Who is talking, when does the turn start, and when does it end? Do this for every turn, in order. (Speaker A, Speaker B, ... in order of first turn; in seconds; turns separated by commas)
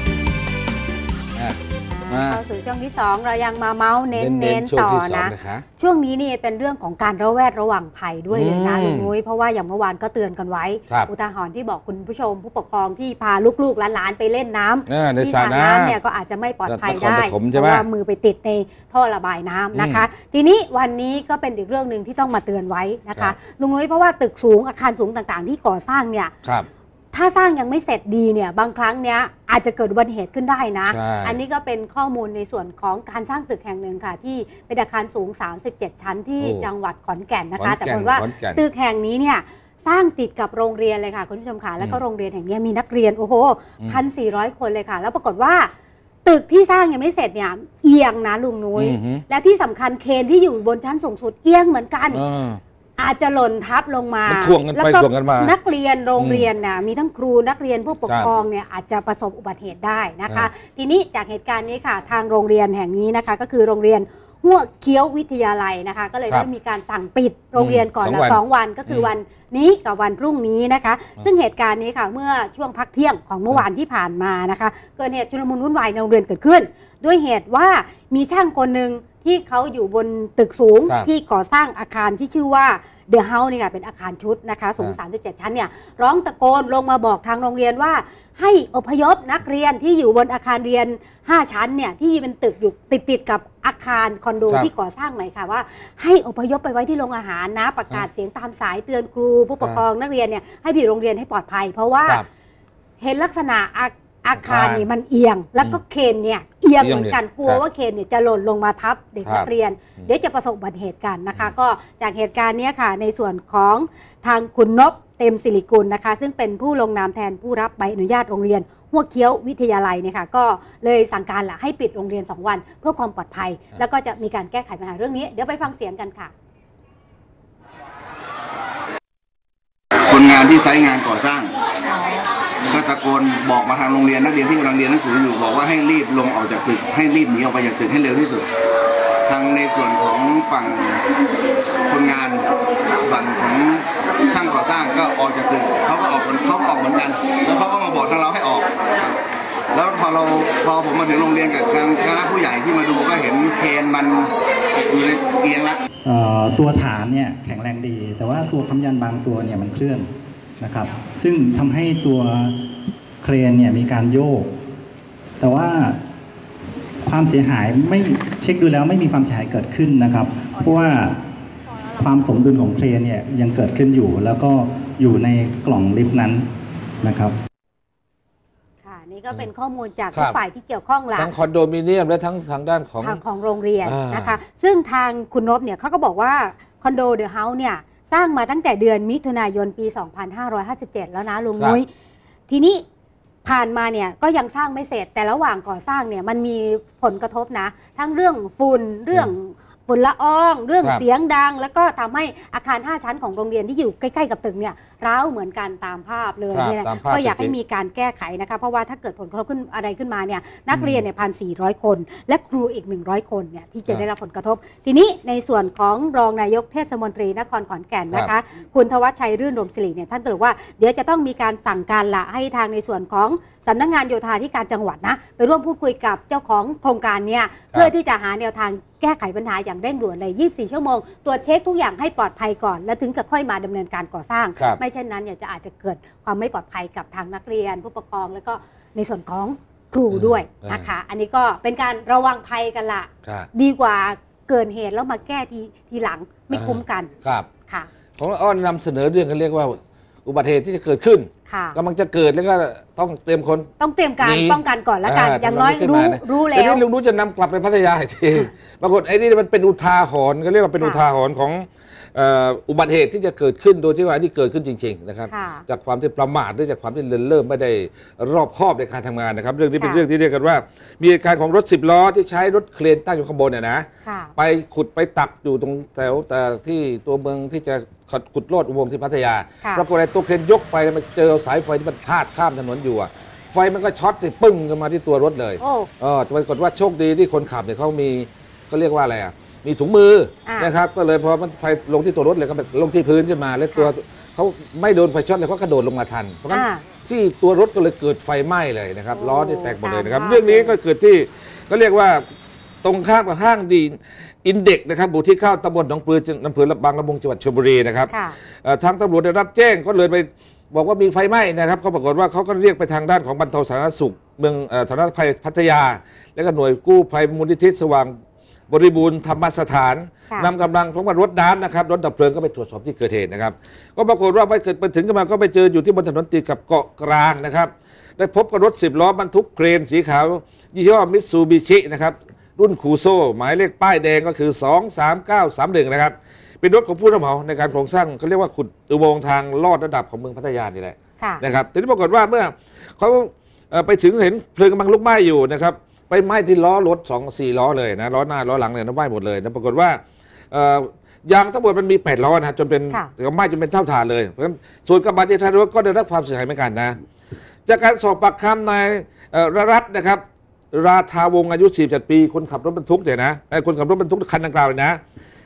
Speaker A: 1.9-26.3, Speaker B: 2.1-2.4, Speaker B: 4.1-5.6, Speaker B: 8.3-9.1, Speaker B: 14.9-16.0, Speaker B: 16.7-17.8, Speaker B: 19.7-20.1, Speaker A: 27.1-45.7, Speaker B: 30.9-31.4, Speaker B: 36.4-36.7, Speaker B: 37.6-38.6, Speaker A: 46.2-52.2, Speaker B: 48.7-49.2, Speaker B: 52.1-52.6, Speaker A: 53.0-102.2, Speaker B: 54.2-55.5, Speaker B: 56.2-56.5, Speaker B: 67.6-69.1, Speaker A: 103.0-126.3, Speaker B: 104.4-104.8, Speaker B: 106.8-107.6, Speaker C: 130.0-131.5, Speaker C: 132.6-138.5, Speaker C: 139.2-141.1, Speaker C: 141.8-155.8, Speaker D: 156.0-162.6, Speaker D: 163.2-164.5, Speaker D: 165.4-166.0, Speaker D: 167.0-171.2, Speaker D: 172.0-176.4, Speaker D: 177.0-177.3, Speaker A: 178.8-181.3, Speaker B: 181.2-183.2, Speaker A: 183.0-191.9, Speaker B: 183.8-184.3, Speaker A: 192.5-192.8, Speaker A: 193.4-247.1, Speaker B: 206.5-207.5, Speaker B: 210.7-211.0, Speaker B: 240.1-240.9, Speaker B: 246.5-247.5, Speaker B: 248.2-253.7, Speaker A: 251.5-251.8, Speaker A: 253.8-256.8, Speaker B: 254.2-273.9, Speaker A: 265.3-265.6, Speaker A: 274.1-274.3, Speaker B: 274.4-302.2, Speaker A: 285.6-285.9, Speaker A: 290.4-290.7, Speaker A: 296.5-296.8, Speaker A: 299.1-300.7, Speaker B: 302.8-308.1, Speaker A: 308.1-308.4, Speaker B: 308.6-318.1, Speaker B: 318.7-350.0, Speaker B: 350.5-356.9, Speaker B: 357.6-365.0